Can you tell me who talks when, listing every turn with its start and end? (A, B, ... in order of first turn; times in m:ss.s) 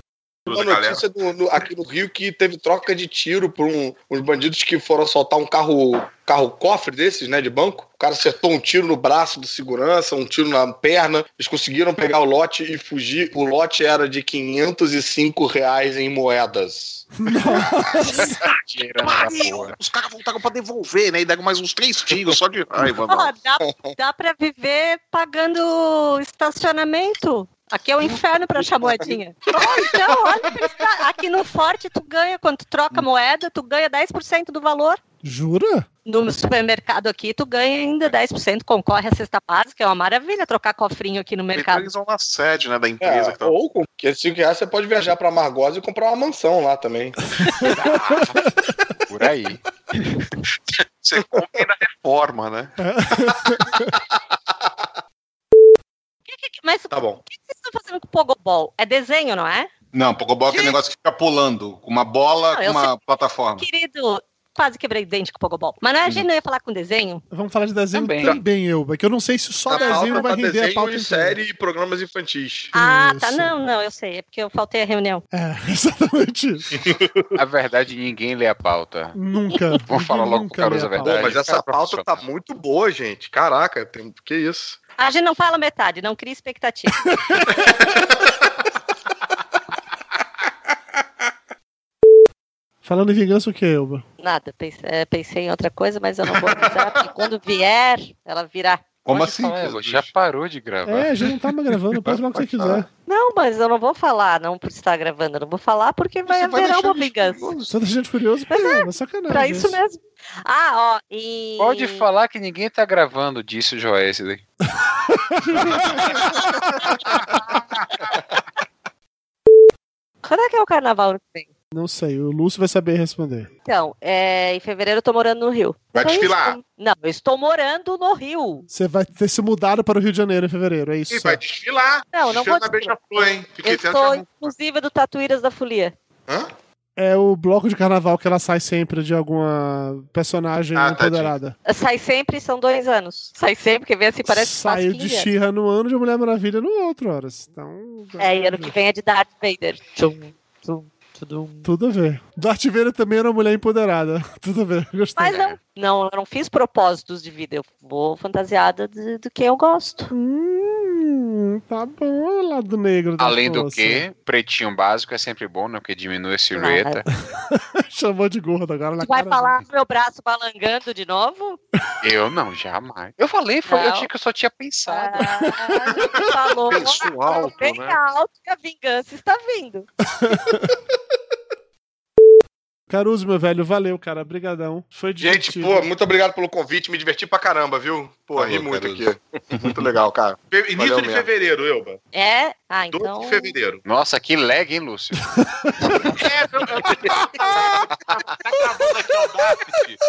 0:00.5-0:01.0 A
0:00.5-0:17.1 B
0:17.2-0:18.4 C
0:18.1-0:19.7 D
0:18.2-0:23.3 E
0:23.0-0:35.0 F
0:35.2-0:35.9 C
0:36.0-0:41.9 F
0:41.5-0:43.5 E
0:43.0-0:47.2 B
0:47.4-0:48.5 C
0:47.6-0:48.6 D
0:49.1-0:49.6 D
0:50.7-0:52.8 E
0:52.8-0:53.9 C
0:56.3-0:59.7 F
0:56.9-0:57.2 B
0:59.9-1:03.7 G
1:00.5-1:00.8 F
1:02.5-1:02.9 F
1:03.6-1:07.2 F
1:07.3-1:11.4 C
1:07.9-1:08.4 D
1:09.7-1:12.7 B
1:09.7-1:10.2 F
1:12.7-1:15.2 F
1:12.7-1:13.5 C
1:15.3-1:16.8 C
1:17.3-1:22.2 D
1:19.1-1:21.3 C
1:21.0-1:24.8 B
1:25.0-1:27.2 F
1:32.8-1:34.0 C
1:34.2-1:38.8 F
1:39.0-1:40.1 G
1:39.1-1:41.3 D
1:40.8-1:42.9 C
1:42.1-1:42.8 D
1:43.0-1:47.6 F
1:46.3-1:47.7 G
1:47.7-1:49.8 C
1:48.5-1:52.1 F
1:51.6-1:54.4 D
1:55.2-1:55.6 C
2:00.2-2:01.5 F
2:01.7-2:03.5 C
2:03.6-2:08.6 F
2:05.9-2:06.6 A
2:08.7-2:11.4 C
2:11.1-2:14.5 A
2:12.1-2:13.0 F
2:13.6-2:15.9 F
2:17.0-2:21.6 C
2:20.7-2:21.3 A
2:21.6-2:25.3 F
2:24.2-2:28.7 C
2:28.2-2:31.7 F
2:31.6-2:35.4 C
2:35.2-2:40.1 F
2:40.1-2:44.0 C
2:43.2-2:47.0 D
2:46.5-2:47.0 F
2:47.5-2:49.6 C
2:49.0-2:51.6 F
2:52.0-2:55.7 D
2:53.6-2:54.1 F
2:54.9-2:59.9 F
2:56.7-2:58.0 E
3:00.2-3:00.6 C
3:02.9-3:05.9 C
3:05.2-3:11.3 B
3:08.4-3:09.8 G
3:10.5-3:12.0 A
3:12.1-3:13.5 F
3:12.9-3:13.8 A
3:13.8-3:15.4 D
3:16.0-3:20.0 A